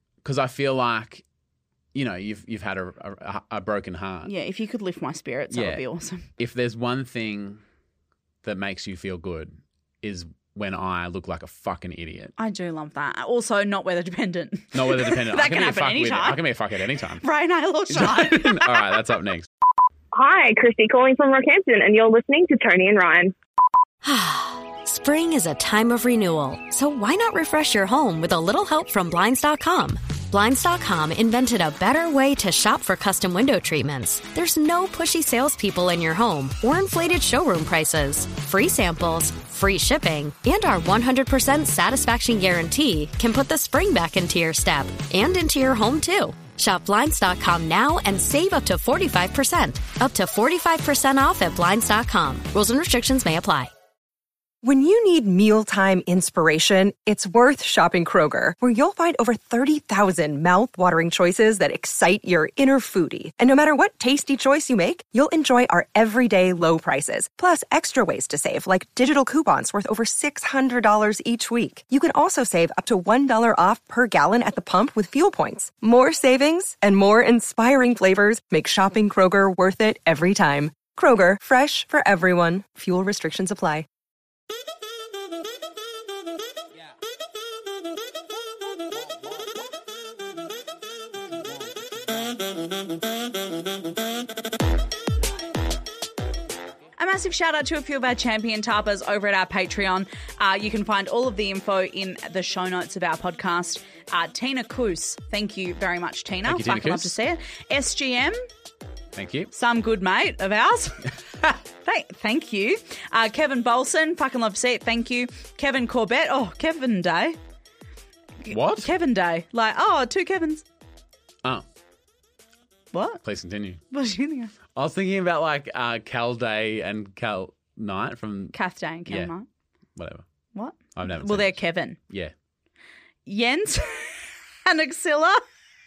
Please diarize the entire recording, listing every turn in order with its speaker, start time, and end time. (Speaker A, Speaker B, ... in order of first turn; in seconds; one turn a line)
Speaker A: 0.2-1.2
Speaker A: 1.9-4.3
Speaker B: 4.3-6.3
Speaker A: 5.5-5.8
Speaker A: 6.4-7.6
Speaker A: 8.4-12.3
Speaker B: 12.4-16.4
Speaker A: 14.7-17.2
Speaker B: 17.2-19.0
Speaker A: 17.9-19.5
Speaker C: 20.1-23.3
Speaker D: 24.0-53.7
Speaker E: 54.6-83.9
Speaker B: 97.0-108.4
Speaker A: 106.5-107.1
Speaker A: 109.2-109.5
Speaker B: 109.5-111.1
Speaker B: 111.8-117.4
Speaker B: 118.4-120.6
Speaker A: 118.5-118.9
Speaker B: 122.9-123.2
Speaker A: 123.2-123.8
Speaker B: 123.9-124.5
Speaker A: 124.8-128.6
Speaker B: 128.5-129.4
Speaker A: 129.1-129.3
Speaker A: 130.0-130.2
Speaker B: 130.6-132.0
Speaker A: 131.0-131.6
Speaker B: 133.3-135.4